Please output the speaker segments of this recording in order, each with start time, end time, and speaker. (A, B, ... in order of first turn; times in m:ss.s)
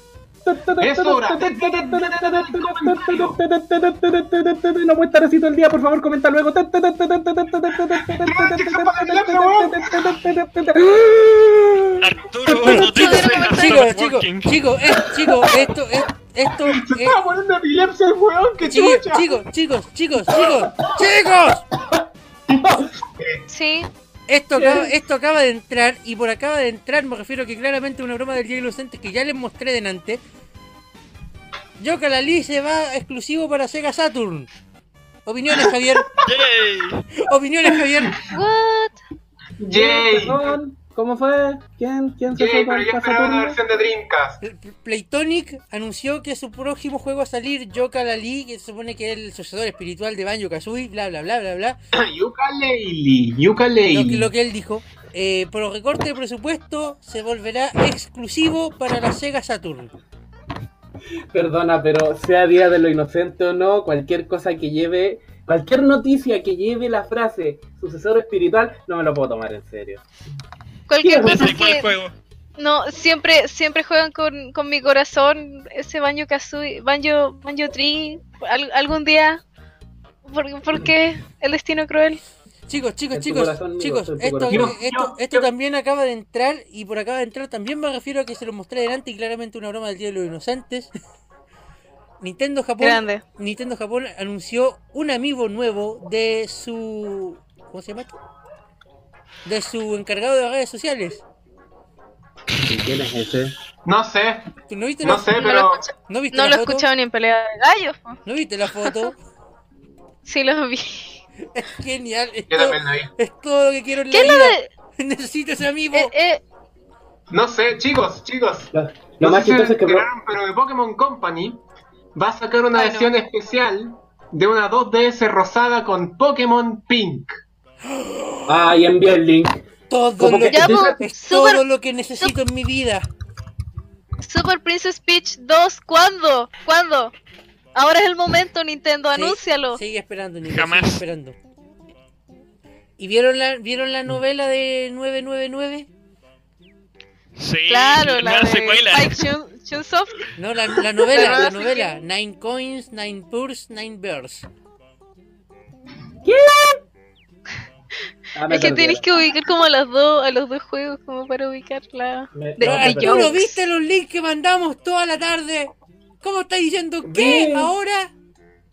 0:00.4-0:12.0 A
0:00.8-0:03.4 B
0:08.0-0:10.0 B
0:12.0-0:14.5 C
0:12.5-0:12.8 A
0:12.6-0:17.2 D
0:12.8-0:13.8 E
0:15.0-0:15.5 A
0:16.7-0:19.4 B
0:18.6-0:21.6 D
0:20.4-0:20.9 A
0:22.5-0:23.4 B
0:22.6-0:22.9 A
0:23.5-0:23.9 E
0:24.3-0:30.2 D
0:24.6-0:24.9 A
0:31.8-0:34.5 D
0:35.2-0:36.1 D
0:36.2-0:37.0 C
0:37.2-0:38.2 D
0:38.3-0:39.0 E
0:39.6-0:40.5 B
0:39.7-0:43.6 A
0:42.3-0:44.4 B
0:44.4-0:51.8 D
0:51.9-0:54.3 B
0:53.9-0:59.9 D
1:01.3-1:10.0 A
1:10.9-1:11.9 E
1:11.0-1:11.6 A
1:11.2-1:12.1 C
1:12.6-1:19.4 E
1:20.2-1:22.2 E
1:22.7-1:30.9 D
1:23.1-1:24.8 A
1:24.5-1:25.5 B
1:32.2-1:38.1 D
1:32.8-1:33.2 E
1:39.4-1:41.2 D
1:42.6-1:43.5 A
1:43.8-1:44.5 B
1:44.7-1:45.5 D
1:45.0-1:45.8 B
1:45.4-1:48.2 E
1:46.1-1:46.8 D
1:48.2-1:49.2 D
1:50.2-1:51.2 E
1:51.5-1:56.1 D
1:52.5-1:53.1 B
1:54.1-1:54.7 E
1:55.9-1:56.4 E
1:57.3-2:01.6 B
1:58.7-2:00.1 A
2:02.1-2:07.4 B
2:02.7-2:03.1 E
2:07.9-2:08.7 D
2:08.5-2:09.6 A
2:09.9-2:13.1 D
2:10.2-2:10.9 A
2:10.5-2:11.6 E
2:14.2-2:17.1 E
2:17.7-2:19.8 E
2:19.1-2:21.4 D
2:20.5-2:21.0 C
2:23.0-2:25.9 D
2:27.4-2:29.3 C
2:27.7-2:30.3 E
2:30.4-2:34.5 D
2:31.1-2:31.9 E
2:36.2-2:36.8 A
2:38.3-2:39.0 A
2:38.5-2:43.6 E
2:42.3-2:43.3 A
2:42.6-2:48.1 D
2:47.0-2:47.7 A